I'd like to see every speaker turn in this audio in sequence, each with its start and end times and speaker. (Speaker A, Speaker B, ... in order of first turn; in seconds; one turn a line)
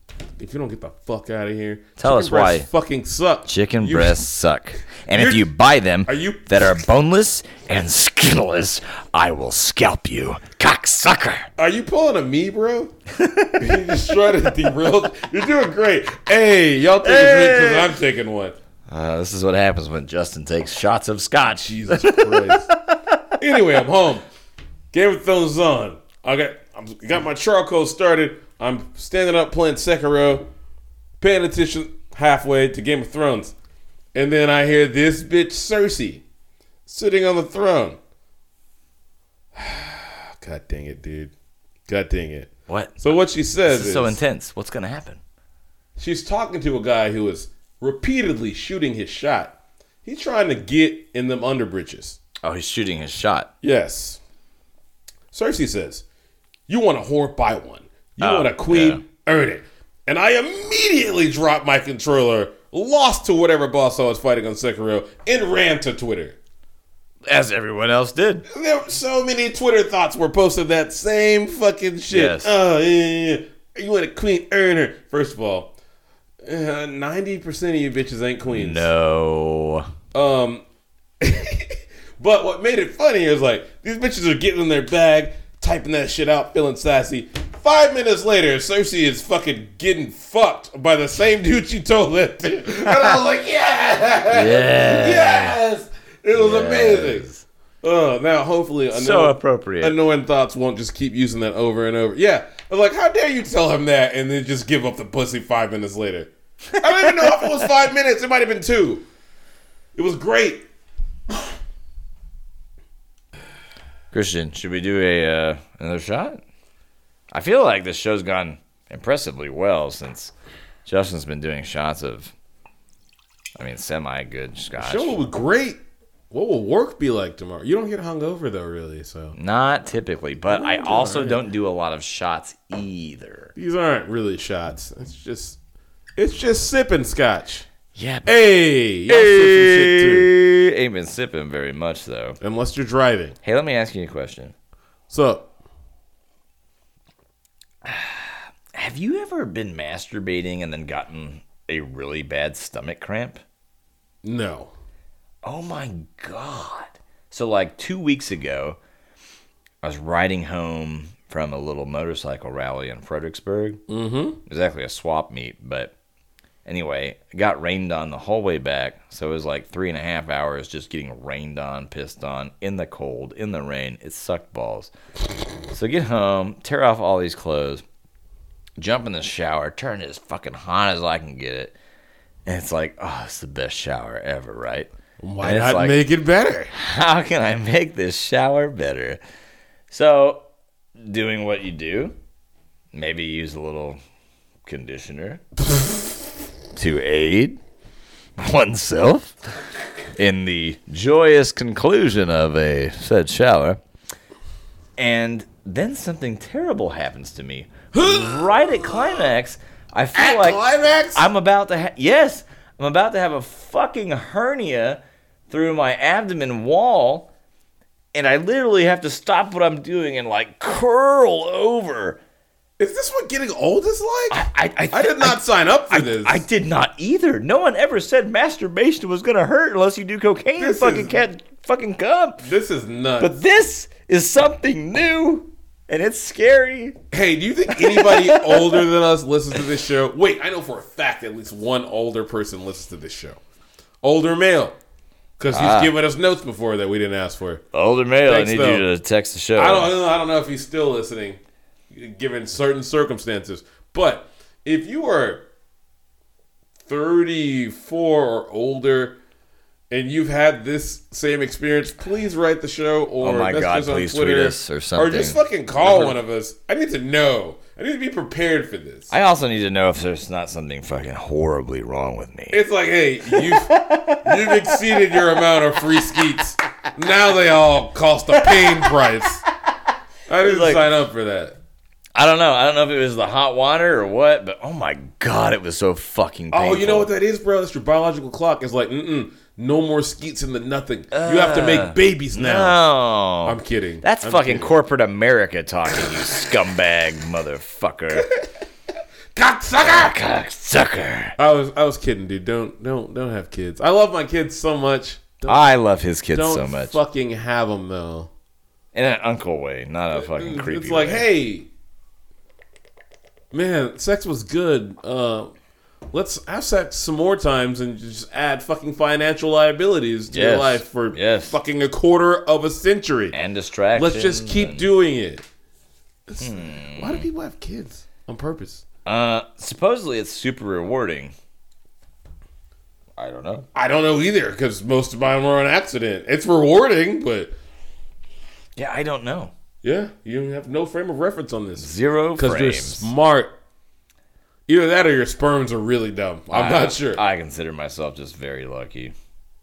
Speaker A: 0.4-4.2
Speaker B: 2.0-2.7
Speaker B: 3.5-11.5
Speaker A: 5.1-5.5
Speaker A: 6.1-6.7
Speaker A: 11.6-12.9
Speaker B: 13.1-13.9
Speaker A: 13.6-18.6
Speaker B: 17.0-17.9
Speaker B: 18.9-23.4
Speaker A: 21.6-22.7
Speaker A: 23.4-24.3
Speaker A: 24.9-30.5
Speaker A: 31.2-33.5
Speaker A: 34.1-36.2
Speaker A: 36.9-38.0
Speaker A: 39.5-41.3
Speaker A: 41.9-44.2
Speaker B: 42.7-45.2
Speaker A: 46.0-52.2
Speaker B: 52.4-53.5
Speaker A: 53.6-54.2
Speaker A: 55.3-56.0
Speaker A: 56.7-66.4
Speaker B: 58.2-59.0
Speaker B: 67.2-68.5
Speaker A: 68.5-75.7
Speaker B: 72.1-72.5
Speaker A: 76.5-78.9
Speaker B: 78.5-79.9
Speaker A: 80.1-80.7
Speaker A: 81.2-97.3
Speaker B: 94.3-95.6
Speaker B: 96.3-97.4
Speaker A: 97.8-109.0
Speaker B: 98.9-100.0
Speaker B: 106.8-107.7
Speaker A: 110.0-110.6
Speaker B: 114.1-116.4
Speaker B: 117.3-120.3
Speaker B: 120.8-122.3
Speaker B: 123.6-125.2
Speaker A: 124.8-125.8
Speaker A: 126.3-129.4
Speaker B: 129.3-133.5
Speaker A: 130.5-131.4
Speaker A: 133.6-135.6
Speaker A: 136.2-137.7
Speaker B: 137.9-138.3
Speaker A: 138.2-140.3
Speaker B: 139.1-142.4
Speaker A: 142.4-143.4
Speaker B: 143.4-144.6
Speaker A: 145.1-145.5
Speaker B: 147.8-153.4
Speaker A: 154.2-154.7
Speaker B: 155.4-158.8
Speaker B: 159.8-163.8
Speaker A: 163.9-164.4
Speaker B: 164.5-165.9
Speaker B: 166.7-174.9
Speaker B: 175.7-177.8
Speaker B: 178.8-181.8
Speaker B: 182.5-184.9
Speaker A: 185.2-186.8
Speaker B: 185.4-186.0
Speaker B: 186.7-189.2
Speaker B: 189.9-190.5
Speaker B: 191.0-192.2
Speaker B: 192.9-194.0
Speaker B: 194.7-195.4
Speaker B: 196.8-197.6
Speaker B: 198.4-199.4
Speaker B: 200.2-203.8
Speaker B: 205.0-210.6
Speaker A: 207.9-209.3
Speaker A: 210.1-211.3
Speaker B: 211.1-217.3
Speaker B: 218.1-222.2
Speaker A: 222.8-226.4
Speaker B: 224.3-232.4
Speaker A: 230.6-231.2
Speaker A: 232.4-233.4
Speaker B: 233.2-237.0
Speaker A: 237.1-243.4
Speaker B: 237.7-238.8
Speaker A: 244.0-244.8
Speaker A: 245.4-247.6
Speaker B: 245.5-245.9
Speaker B: 247.7-249.9
Speaker A: 248.2-248.9
Speaker A: 249.6-251.4
Speaker A: 251.9-255.4
Speaker A: 256.9-259.2
Speaker A: 259.9-269.1
Speaker B: 263.2-266.2
Speaker B: 269.1-272.6
Speaker A: 272.5-279.4
Speaker B: 273.3-275.4
Speaker B: 278.3-278.9
Speaker A: 280.3-281.6
Speaker B: 280.4-280.9
Speaker B: 282.2-287.1
Speaker A: 286.5-292.8
Speaker B: 291.1-298.3
Speaker A: 293.4-294.8
Speaker A: 298.1-298.4
Speaker A: 299.4-300.1
Speaker B: 299.8-301.4
Speaker A: 301.4-305.6
Speaker B: 305.5-307.0
Speaker A: 306.3-308.3
Speaker B: 308.9-311.2
Speaker A: 310.1-311.7
Speaker A: 313.5-315.5
Speaker A: 316.1-323.4
Speaker B: 320.3-321.6
Speaker B: 323.3-324.9
Speaker A: 323.9-325.4
Speaker A: 326.3-328.8
Speaker B: 326.4-327.2
Speaker B: 329.1-331.3
Speaker B: 333.2-333.7
Speaker A: 333.8-337.5
Speaker B: 338.8-339.5
Speaker A: 339.8-343.5
Speaker B: 341.8-343.1
Speaker A: 344.7-347.2
Speaker B: 346.5-349.1